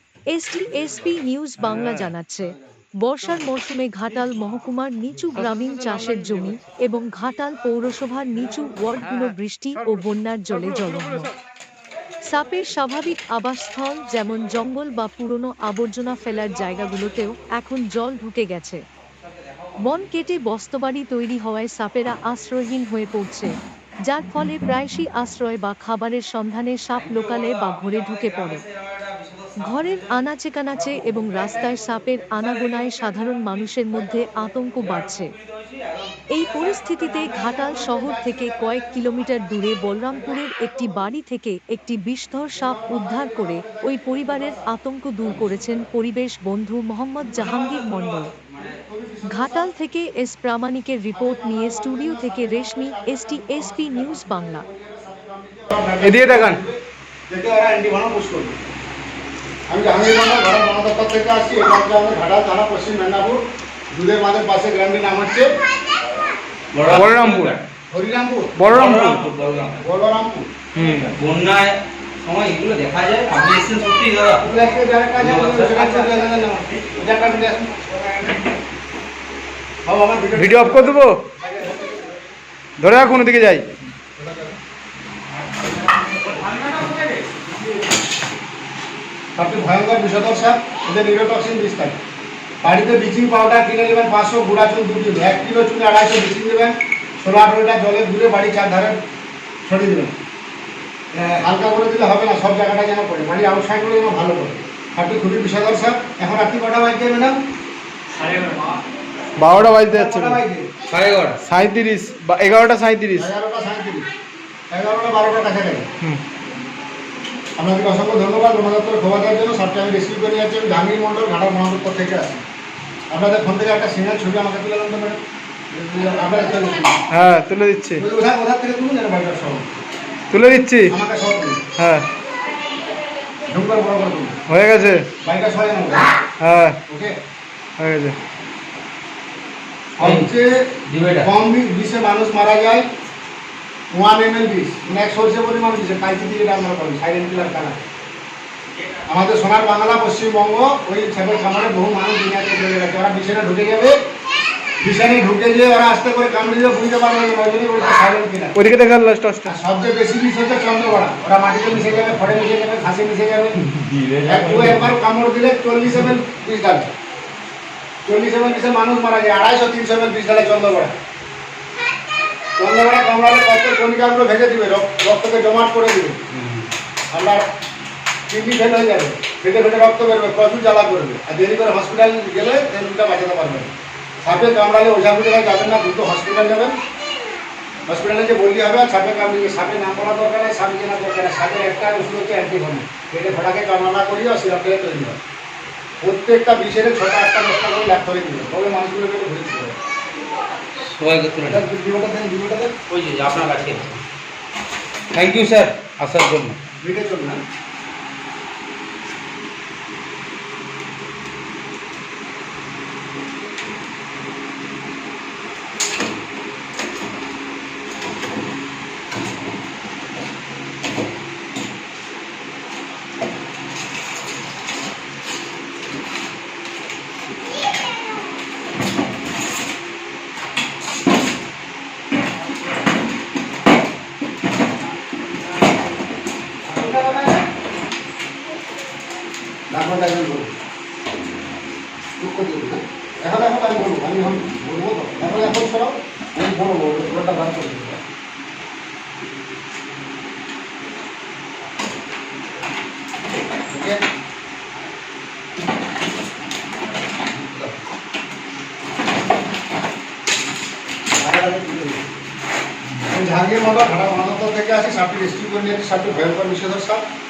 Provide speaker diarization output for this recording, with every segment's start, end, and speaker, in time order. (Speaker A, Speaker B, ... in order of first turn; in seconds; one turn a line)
Speaker A: 0.3-11.3
Speaker A: 12.2-18.8
Speaker A: 19.8-28.6
Speaker B: 29.1-29.5
Speaker A: 29.6-35.3
Speaker A: 36.3-48.3
Speaker C: 42.6-44.6
Speaker B: 48.4-48.8
Speaker C: 48.6-49.7
Speaker A: 49.2-54.6
Speaker C: 51.1-58.6
Speaker D: 56.0-56.6
Speaker C: 59.7-65.5
Speaker B: 66.7-67.6
Speaker D: 66.9-67.5
Speaker C: 67.9-68.6
Speaker D: 68.5-69.3
Speaker B: 68.7-69.8
Speaker C: 69.8-70.5
Speaker D: 70.7-71.1
Speaker B: 71.0-74.5
Speaker C: 74.4-78.0
Speaker B: 75.2-76.5
Speaker C: 79.8-82.1
Speaker D: 80.3-81.2
Speaker D: 82.8-83.7
Speaker C: 84.2-84.6
Speaker C: 89.3-92.0
Speaker C: 92.6-99.0
Speaker C: 99.7-100.1
Speaker C: 101.4-107.4
Speaker D: 108.2-108.6
Speaker D: 109.4-110.4
Speaker C: 109.9-110.7
Speaker B: 110.9-111.4
Speaker D: 111.4-113.3
Speaker C: 113.2-114.1
Speaker C: 114.7-115.9
Speaker C: 117.6-122.4
Speaker C: 123.1-127.0
Speaker D: 127.1-128.0
Speaker C: 128.0-129.7
Speaker D: 130.3-130.9
Speaker C: 130.9-131.6
Speaker D: 131.8-132.1
Speaker C: 133.4-134.4
Speaker D: 134.5-135.1
Speaker C: 135.2-136.1
Speaker D: 136.4-136.8
Speaker C: 136.9-137.1
Speaker D: 137.8-138.2
Speaker C: 140.0-142.9
Speaker B: 140.0-140.3
Speaker B: 140.9-141.3
Speaker C: 143.9-147.8
Speaker C: 149.1-154.0
Speaker C: 154.8-158.5
Speaker D: 158.5-159.5
Speaker C: 159.4-163.6
Speaker B: 163.7-164.8
Speaker C: 164.2-166.9
Speaker C: 168.1-170.9
Speaker C: 172.6-176.2
Speaker B: 176.3-176.7
Speaker C: 177.1-177.4
Speaker C: 178.3-183.7
Speaker C: 184.2-186.8
Speaker C: 187.9-195.2
Speaker C: 196.0-199.8
Speaker B: 200.8-201.6
Speaker C: 201.5-202.8
Speaker B: 202.9-204.0
Speaker B: 205.1-206.6
Speaker C: 206.8-207.4
Speaker C: 236.7-237.4
Speaker C: 239.7-240.5
Speaker C: 242.2-248.0
Speaker C: 253.7-254.0
Speaker C: 261.2-262.0
Speaker C: 263.0-267.0